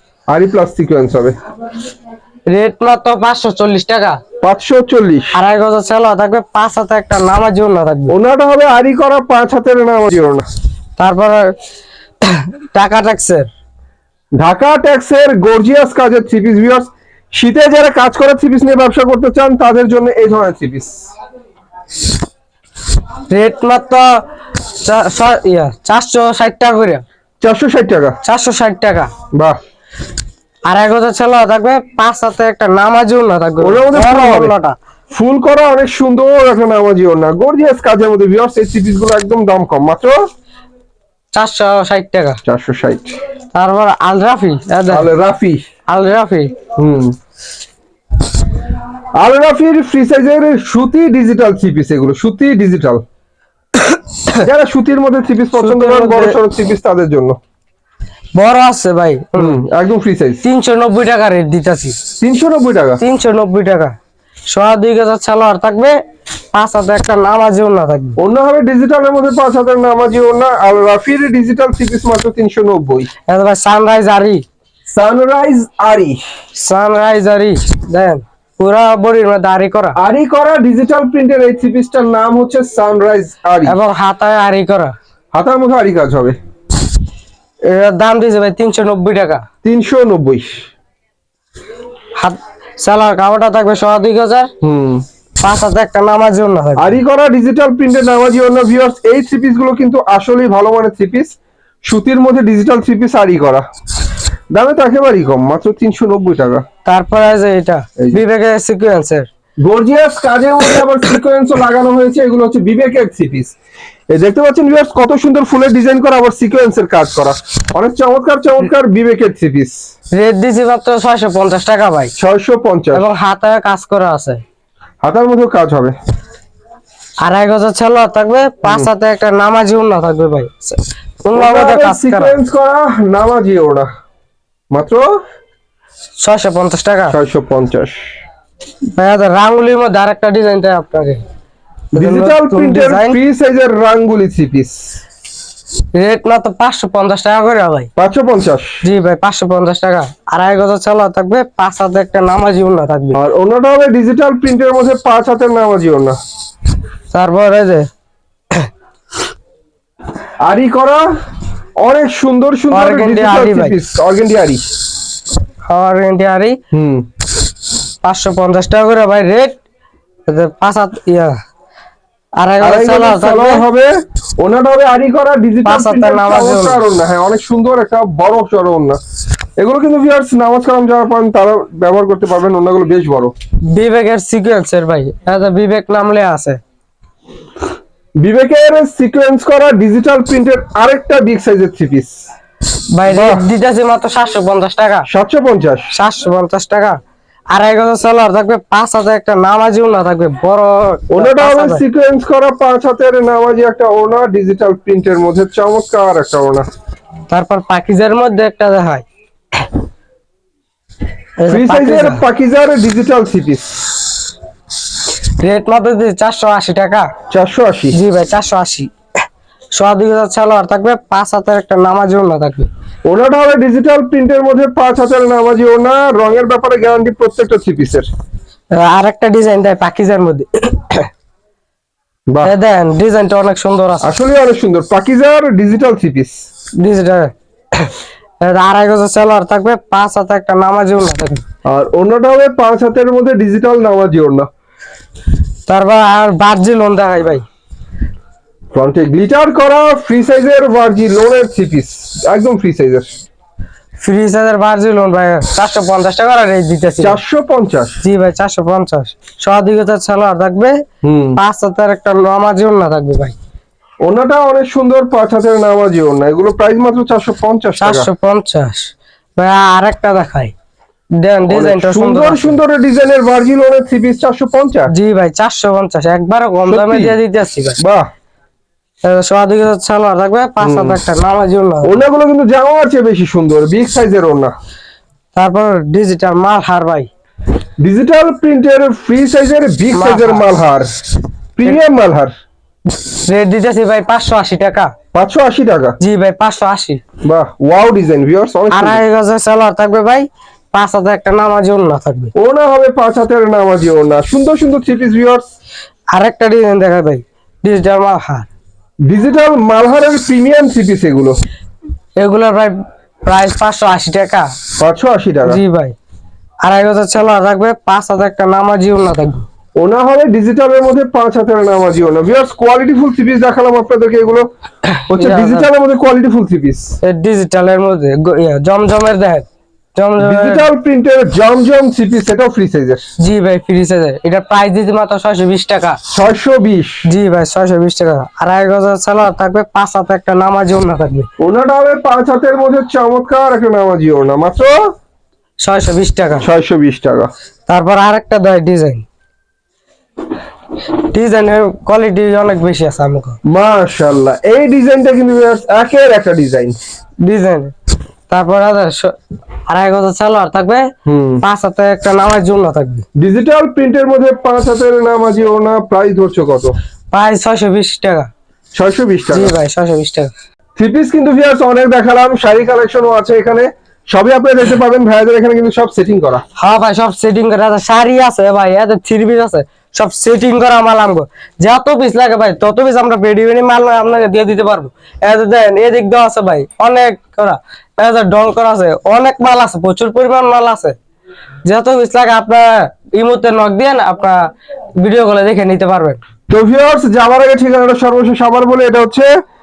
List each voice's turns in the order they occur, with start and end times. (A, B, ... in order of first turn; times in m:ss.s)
0:00.3-0:01.3 A
0:02.5-0:04.2 B
0:04.4-0:05.3 A
0:05.3-0:08.1 B
0:08.1-0:10.4 A
0:11.0-0:11.4 B
0:12.2-0:13.5 B
0:14.4-0:21.0 A
0:23.3-0:24.2 B
0:24.7-0:27.0 B
0:27.4-0:28.2 A
0:28.2-0:29.1 B
0:30.7-0:34.8 B
0:33.6-0:34.5 A
0:35.1-0:40.2 A
0:41.3-0:42.4 B
0:42.4-0:43.1 A
0:43.5-0:45.1 B
0:44.9-0:45.6 A
0:45.9-0:46.5 B
0:46.8-0:47.1 A
0:49.2-0:53.0 A
0:54.4-0:57.4 A
0:55.6-0:56.4 B
0:58.3-0:59.6 B
0:59.3-1:00.4 A
1:00.4-1:02.0 B
1:02.2-1:03.0 A
1:03.0-1:03.9 B
1:04.5-1:05.9 B
1:06.5-1:08.2 B
1:08.2-1:13.1 A
1:13.3-1:14.4 B
1:14.9-1:16.2 A
1:16.6-1:20.0 B
1:20.0-1:23.8 A
1:23.6-1:24.9 B
1:25.3-1:26.4 A
1:27.7-1:29.4 B
1:29.6-1:30.5 A
1:32.2-1:34.5 B
1:34.6-1:35.0 A
1:35.4-1:37.0 B
1:36.8-1:41.3 A
1:41.9-1:43.6 A
1:44.5-1:46.6 A
1:46.8-1:49.3 B
1:49.6-1:53.5 A
1:54.1-1:59.8 A
2:00.1-2:02.1 B
2:02.2-2:03.0 A
2:02.9-2:04.4 B
2:05.0-2:05.9 A
2:07.2-2:12.4 B
2:08.6-2:08.9 A
2:11.3-2:13.9 A
2:14.7-2:15.0 A
2:16.2-2:17.1 B
2:17.1-2:18.0 A
2:19.0-2:21.2 B
2:21.9-2:23.2 B
2:22.0-2:24.8 A
2:25.9-2:27.9 B
2:28.0-2:28.8 A
2:28.8-2:33.2 B
2:33.1-2:36.2 A
2:37.1-2:37.9 B
2:40.4-2:41.0 A
2:41.8-2:44.6 A
2:42.7-2:43.8 B
2:45.7-2:46.6 B
2:46.7-2:47.0 A
2:48.0-2:49.6 B
2:50.3-2:51.4 B
2:52.4-2:53.6 B
2:52.6-2:59.0 A
2:55.6-2:56.8 B
2:59.6-3:03.3 A
3:03.7-3:06.6 B
3:08.2-3:12.1 A
3:13.0-3:15.1 B
3:13.0-3:13.5 A
3:15.1-3:15.9 A
3:15.9-3:17.0 B
3:17.5-3:21.8 B
3:21.1-3:26.6 A
3:27.3-3:29.0 B
3:31.4-3:32.2 B
3:31.5-3:33.8 A
3:35.4-3:37.1 B
3:37.3-3:38.0 A
3:37.9-3:38.9 B
3:39.7-3:42.7 B
3:43.0-3:48.1 A
3:48.7-3:51.1 B
3:52.3-3:52.5 A
3:52.4-3:54.1 B
3:54.0-3:56.3 A
3:56.8-4:01.4 B
4:01.7-4:04.5 A
4:05.7-4:07.4 B
4:08.7-4:13.1 A
4:14.0-4:17.2 B
4:17.0-4:18.0 A
4:18.0-4:20.8 B
4:21.0-4:21.4 A
4:21.4-4:23.3 B
4:24.0-4:28.1 A
4:27.8-4:30.5 B
4:31.2-4:32.6 B
4:31.5-4:34.9 A
4:34.9-4:37.8 B
4:36.7-4:37.2 A
4:37.8-4:38.1 A
4:39.0-4:42.0 B
4:40.6-4:41.0 A
4:41.8-4:44.5 A
4:45.3-4:47.1 B
4:47.8-4:50.9 A
4:49.9-4:50.6 B
4:51.6-4:52.3 A
4:53.0-4:54.9 B
4:55.1-4:56.0 A
4:56.0-4:57.0 B
4:57.2-4:59.0 A
4:58.7-5:02.3 B
5:02.4-5:05.4 A
5:06.1-5:08.5 B
5:09.1-5:11.4 A
5:12.2-5:12.7 B
5:13.2-5:14.5 B
5:14.8-5:15.6 A
5:15.4-5:16.0 B
5:16.6-5:19.4 B
5:19.8-5:24.4 A
5:24.9-5:25.7 B
5:25.1-5:26.9 A
5:27.0-5:30.7 B
5:30.2-5:33.0 A
5:33.2-5:36.0 B
5:36.1-5:37.0 A
5:37.0-5:41.3 B
5:41.4-5:44.9 A
5:45.6-5:46.4 B
5:46.4-5:47.3 A
5:47.7-5:49.0 B
5:51.0-5:53.4 B
5:53.5-5:56.8 A
5:57.2-5:57.7 B
5:58.3-5:59.1 B
5:59.7-6:00.9 B
6:01.0-6:01.4 A
6:01.4-6:03.0 B
6:03.2-6:06.7 A
6:07.1-6:08.3 B
6:08.7-6:09.6 A
6:09.3-6:10.3 B
6:10.8-6:16.4 A
6:16.6-6:31.0 B
6:31.6-6:34.4 B
6:35.0-6:36.2 B
6:36.5-6:39.3 A